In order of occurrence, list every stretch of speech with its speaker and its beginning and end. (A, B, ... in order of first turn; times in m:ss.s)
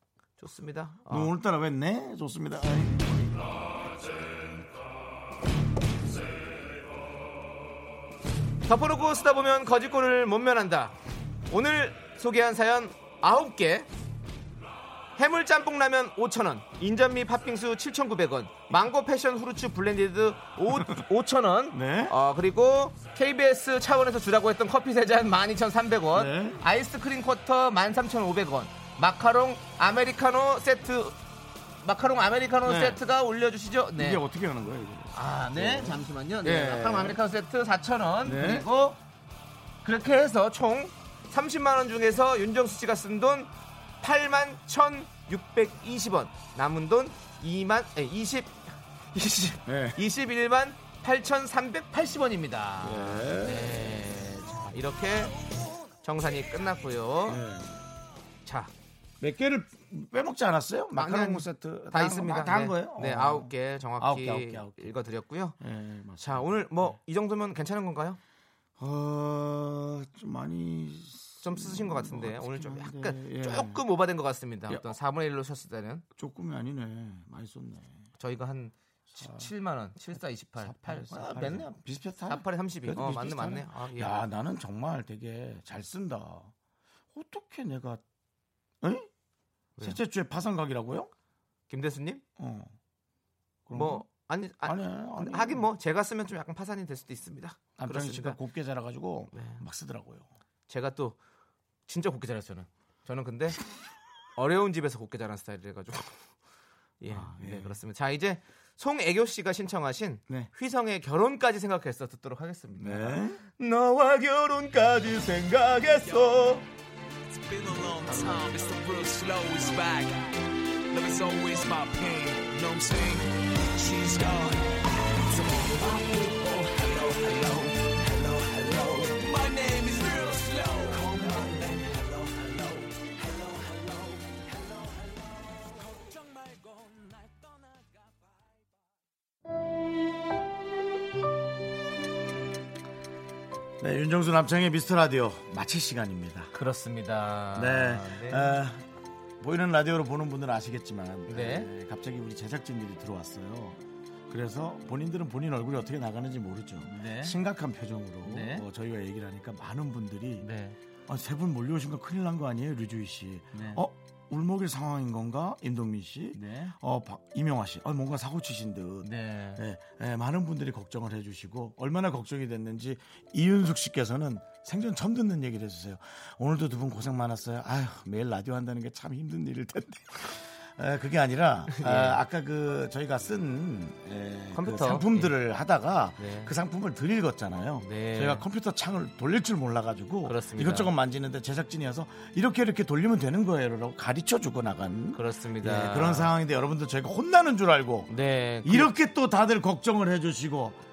0:00.4-0:01.3 A
0:01.1-0:03.7 B
0:08.6-0:10.9 A
0:11.5-0:13.9 A
0:15.2-0:31.2 A
0:20.7-0:21.0 B
0:21.7-0:22.1 B
0:26.1-0:26.6 B
0:31.8-0:34.2 A
0:32.6-0:33.0 B
0:34.0-0:37.2 B
0:35.1-0:39.0 A
0:38.2-0:38.6 B
0:39.8-0:55.3 A
0:49.6-0:50.0 B
0:52.8-0:54.0 B
0:56.0-0:57.4 A
0:57.3-0:57.8 B
0:58.4-0:58.7 A
0:59.2-1:05.0 B
1:00.9-1:05.6 A
1:05.6-1:07.0 B
1:06.2-1:08.2 A
1:08.8-1:13.8 B
1:11.4-1:16.0 A
1:16.2-1:18.0 B
1:18.2-1:21.8 A
1:19.2-1:19.5 B
1:20.6-1:26.5 B
1:22.3-1:24.3 A
1:27.1-1:28.0 B
1:28.8-1:29.1 B
1:29.8-1:31.1 B
1:31.7-1:32.2 A
1:32.4-1:32.7 B
1:33.6-1:34.0 B
1:33.7-1:38.4 A
1:34.6-1:35.6 B
1:37.8-1:40.3 B
1:39.3-1:39.6 A
1:40.7-1:41.2 A
1:41.9-1:43.6 A
1:44.4-1:46.2 A
1:47.0-1:56.6 A
1:47.1-1:47.8 B
1:52.8-1:53.4 B
1:57.3-2:00.2 C
2:00.9-2:17.9 C
2:23.8-2:26.5 B
2:26.5-2:28.6 A
2:27.6-2:28.8 B
2:29.4-2:40.5 B
2:31.3-2:31.7 A
2:36.9-2:37.4 A
2:38.2-2:38.6 A
2:40.4-2:40.8 A
2:41.1-3:18.1 B
2:43.5-2:43.8 A
2:46.3-2:46.7 A
2:49.0-2:49.6 A
3:01.7-3:02.2 A
3:04.5-3:05.3 A
3:06.2-3:06.5 A
3:07.8-3:08.4 A
3:10.3-3:10.9 A
3:15.1-3:16.3 A
3:18.1-3:18.9 A
3:18.6-3:20.8 B